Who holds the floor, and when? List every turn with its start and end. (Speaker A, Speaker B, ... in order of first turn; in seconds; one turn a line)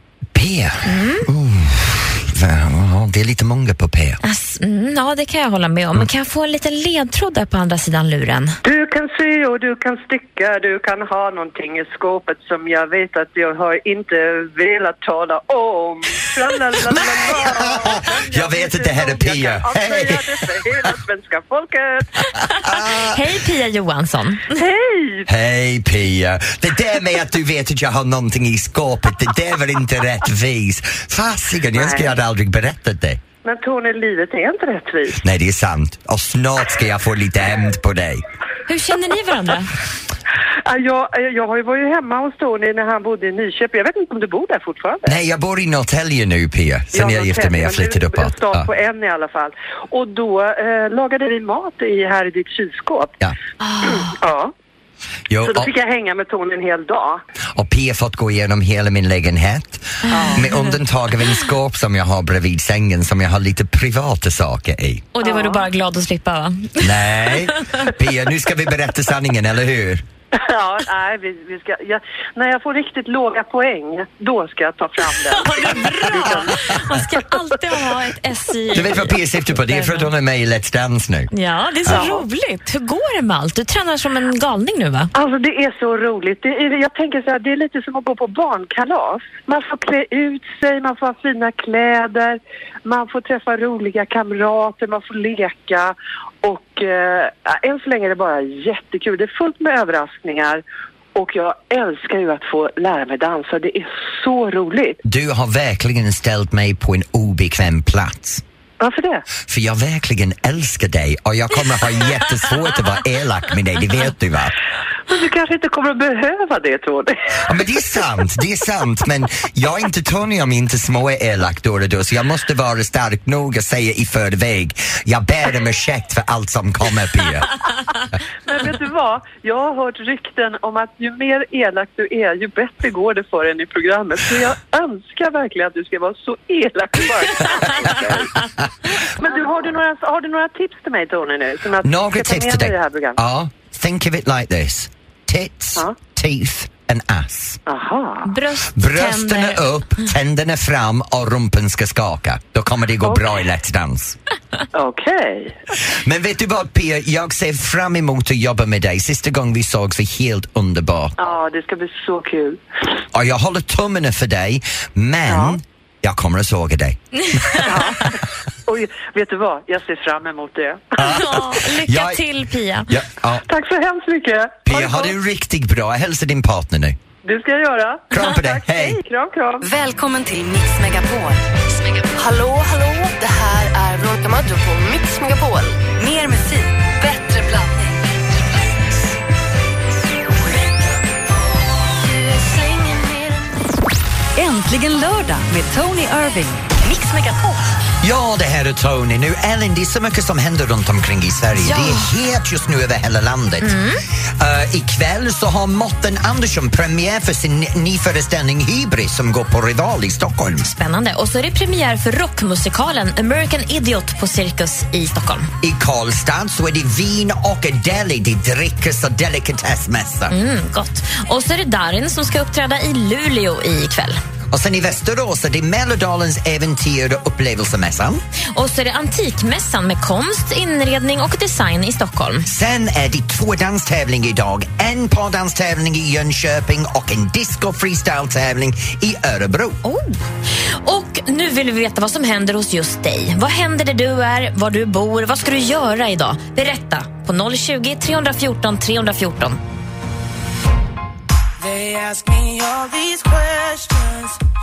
Speaker A: 0.3-4.2
Speaker B: 0.8-1.3
Speaker B: 4.2-8.6
Speaker C: 8.6-22.3
Speaker A: 16.9-20.5
Speaker A: 22.6-23.2
Speaker B: 22.6-24.6
Speaker C: 24.6-25.3
Speaker A: 25.3-33.2
Speaker C: 31.7-32.1
Speaker C: 33.4-35.2
Speaker A: 35.1-38.2
Speaker B: 38.7-39.8
Speaker C: 40.6-45.2
Speaker A: 45.0-48.7
Speaker C: 46.9-53.1
Speaker B: 53.6-54.1
Speaker C: 53.8-54.5
Speaker A: 55.3-55.7
Speaker C: 55.4-57.2
Speaker A: 57.5-65.1
Speaker B: 60.1-60.6
Speaker C: 60.1-60.5
Speaker B: 65.1-67.9
Speaker C: 65.2-65.6
Speaker A: 66.8-70.0
Speaker C: 70.3-76.8
Speaker B: 75.2-80.1
Speaker A: 78.7-81.3
Speaker B: 81.3-85.1
Speaker C: 81.9-82.2
Speaker C: 85.1-100.6
Speaker C: 101.1-105.0
Speaker A: 105.0-108.4
Speaker C: 108.8-109.2
Speaker A: 109.4-114.5
Speaker C: 115.1-117.5
Speaker A: 117.4-127.5
Speaker C: 128.4-138.3
Speaker C: 139.0-143.2
Speaker A: 141.8-147.6
Speaker C: 147.7-148.3
Speaker B: 148.2-149.6
Speaker A: 148.7-154.2
Speaker C: 153.0-153.3
Speaker C: 154.7-155.6
Speaker A: 155.9-161.1
Speaker C: 161.2-162.6
Speaker A: 163.1-167.7
Speaker C: 165.3-165.6
Speaker B: 167.3-167.6
Speaker C: 167.6-171.0
Speaker A: 171.0-172.2
Speaker B: 171.0-172.9
Speaker A: 172.9-173.4
Speaker C: 173.5-175.1
Speaker A: 174.7-177.0
Speaker C: 177.2-179.6
Speaker A: 178.1-179.0
Speaker D: 179.7-181.4
Speaker D: 182.1-187.9
Speaker D: 192.1-193.3
Speaker E: 194.3-196.7
Speaker A: 198.0-203.8
Speaker B: 201.6-202.1
Speaker B: 203.6-204.0
Speaker A: 204.4-210.7
Speaker B: 210.6-215.5
Speaker A: 215.6-220.3
Speaker B: 220.3-224.2
Speaker A: 224.5-228.2
Speaker B: 228.5-232.5
Speaker A: 232.4-239.8
Speaker B: 239.8-240.1
Speaker B: 240.8-249.6
Speaker F: 251.6-254.3